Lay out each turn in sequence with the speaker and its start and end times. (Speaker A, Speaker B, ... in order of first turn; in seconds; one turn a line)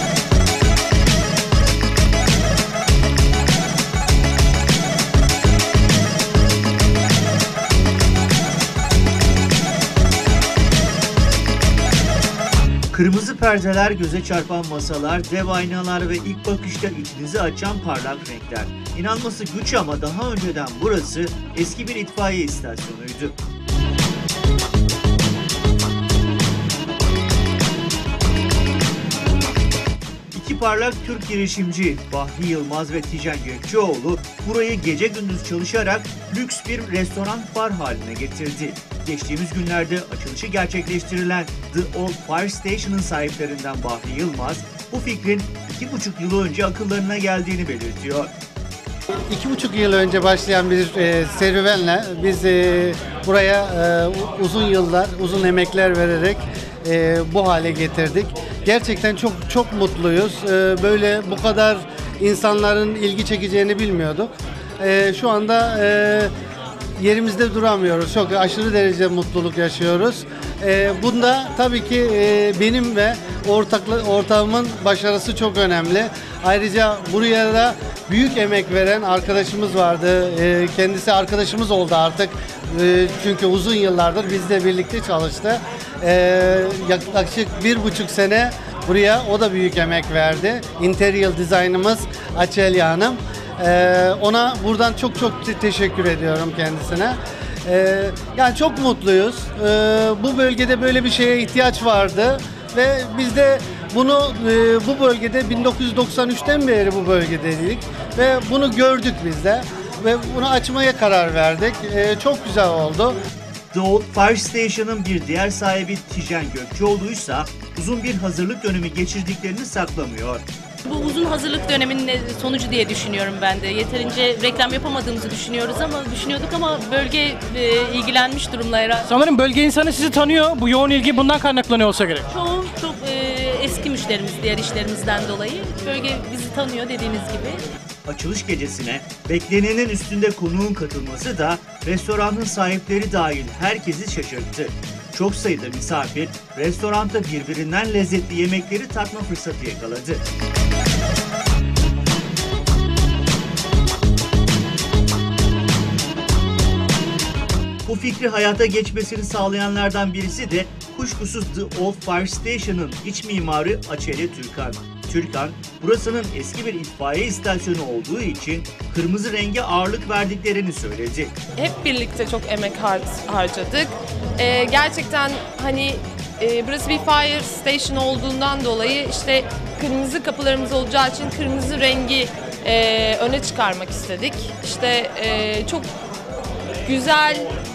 Speaker A: 12.9-23.4
Speaker A: 30.3-48.3
Speaker B: 49.3-66.3
Speaker B: 67.0-113.2
Speaker A: 113.7-120.5
Speaker C: 120.8-129.1
Speaker D: 129.1-132.2
Speaker C: 132.3-137.6
Speaker A: 138.1-150.2
Speaker A: 157.9-171.3
Speaker E: 171.6-185.9
Speaker E: 186.8-187.6